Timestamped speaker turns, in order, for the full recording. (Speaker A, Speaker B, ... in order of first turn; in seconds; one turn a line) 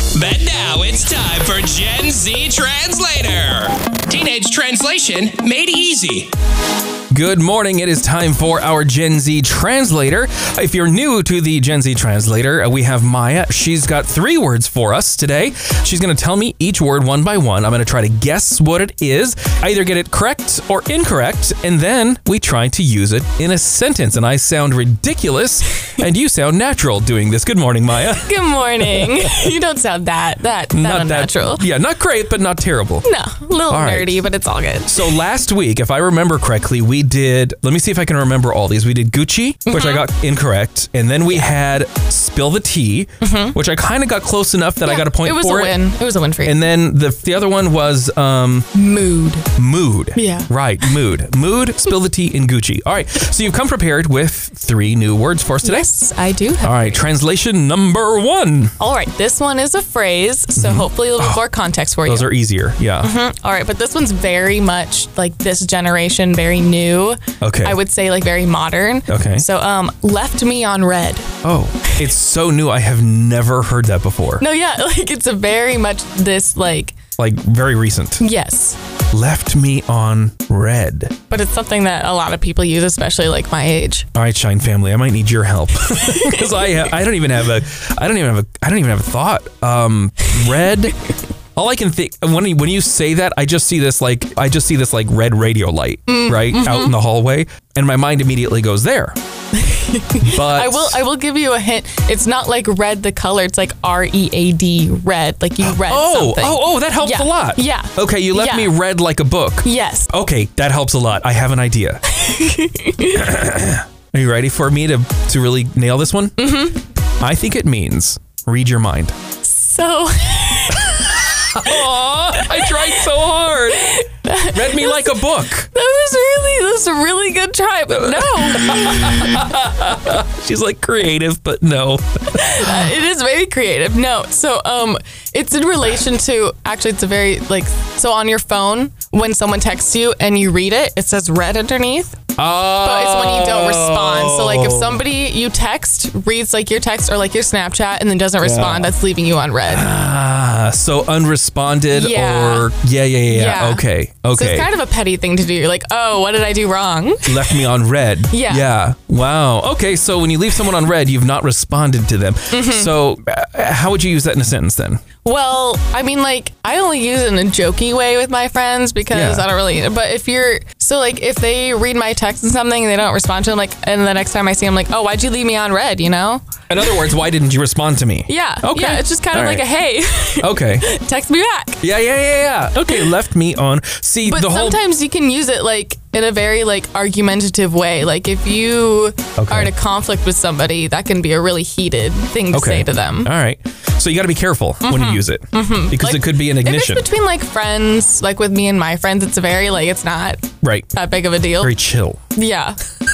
Speaker A: 0.1-6.3
Speaker B: 7.1-28.4
Speaker C: 28.2-31.6
Speaker B: 29.0-29.5
Speaker B: 30.7-33.0
Speaker C: 33.0-35.1
Speaker B: 33.7-34.2
Speaker B: 34.9-45.8
Speaker C: 39.7-40.1
Speaker C: 43.2-43.6
Speaker C: 44.8-46.7
Speaker B: 46.4-48.7
Speaker C: 48.7-49.5
Speaker B: 49.6-55.9
Speaker C: 50.1-50.5
Speaker C: 55.6-57.0
Speaker B: 56.6-58.7
Speaker C: 58.8-62.3
Speaker B: 60.5-61.4
Speaker B: 62.0-63.1
Speaker C: 63.0-71.3
Speaker B: 67.4-67.8
Speaker B: 69.1-69.4
Speaker B: 71.4-74.4
Speaker C: 74.4-77.0
Speaker B: 77.2-78.2
Speaker C: 78.2-78.8
Speaker B: 79.1-81.1
Speaker C: 81.3-84.0
Speaker B: 84.1-91.0
Speaker C: 86.0-86.5
Speaker B: 91.5-99.2
Speaker C: 96.1-97.0
Speaker C: 99.5-108.8
Speaker B: 100.2-101.0
Speaker B: 105.6-112.0
Speaker C: 109.6-110.1
Speaker C: 112.1-113.4
Speaker B: 113.1-116.7
Speaker C: 116.4-116.9
Speaker B: 117.2-119.1
Speaker C: 119.4-121.7
Speaker B: 121.0-125.7
Speaker C: 122.4-123.0
Speaker C: 123.8-129.4
Speaker B: 127.9-132.9
Speaker C: 132.3-142.2
Speaker B: 142.4-145.0
Speaker C: 142.8-149.9
Speaker B: 148.4-148.9
Speaker B: 149.7-154.7
Speaker C: 151.9-152.7
Speaker C: 153.3-157.6
Speaker B: 157.2-165.0
Speaker C: 158.3-158.6
Speaker C: 162.5-162.9
Speaker C: 165.2-176.9
Speaker B: 169.1-169.4
Speaker B: 176.7-179.7
Speaker C: 178.3-181.8
Speaker B: 180.4-180.9
Speaker B: 181.8-184.8
Speaker C: 182.8-183.1
Speaker C: 184.2-193.3
Speaker B: 189.4-189.7
Speaker B: 192.5-197.1
Speaker C: 194.8-201.7
Speaker B: 200.6-200.9
Speaker B: 201.6-202.2
Speaker C: 202.3-202.8